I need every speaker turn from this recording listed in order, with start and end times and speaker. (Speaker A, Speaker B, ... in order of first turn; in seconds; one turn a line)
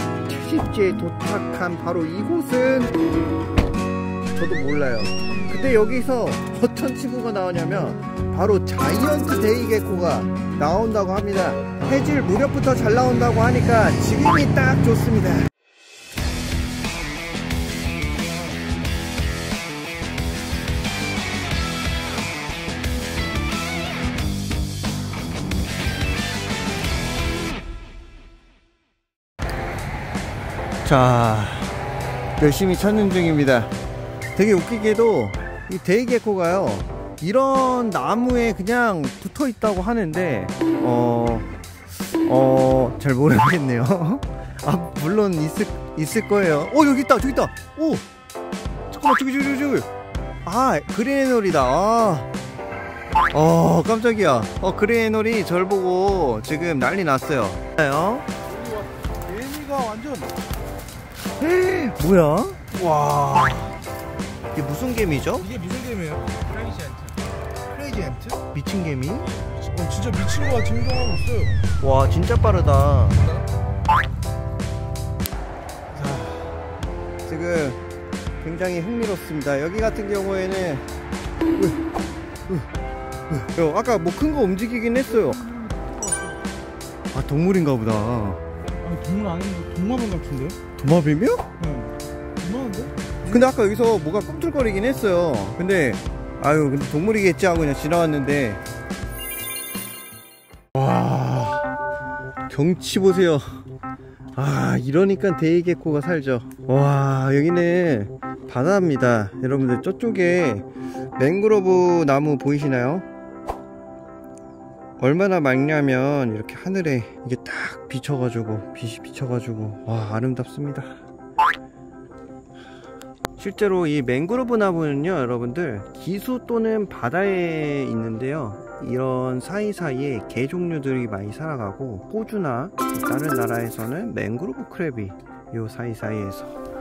Speaker A: 0.3-3.0
Speaker A: 4.3-15.5
Speaker A: 30.8-31.8
Speaker A: 32.4-33.7
Speaker A: 34.4-41.5
Speaker A: 42.1-48.0
Speaker A: 48.9-49.9
Speaker A: 50.5-52.3
Speaker A: 53.3-58.3
Speaker B: 58.5-60.4
Speaker A: 61.4-63.8
Speaker A: 64.5-65.5
Speaker B: 65.4-68.4
Speaker A: 68.5-69.3
Speaker B: 69.5-71.7
Speaker A: 71.8-73.3
Speaker A: 75.9-76.6
Speaker A: 77.2-77.8
Speaker A: 78.4-80.9
Speaker A: 83.3-85.4
Speaker B: 85.2-86.4
Speaker A: 87.1-88.4
Speaker B: 88.7-90.6
Speaker A: 90.8-91.5
Speaker B: 91.6-93.5
Speaker A: 93.3-98.6
Speaker A: 100.7-101.7
Speaker A: 102.5-103.6
Speaker A: 104.4-113.0
Speaker A: 115.0-121.0
Speaker A: 123.4-136.6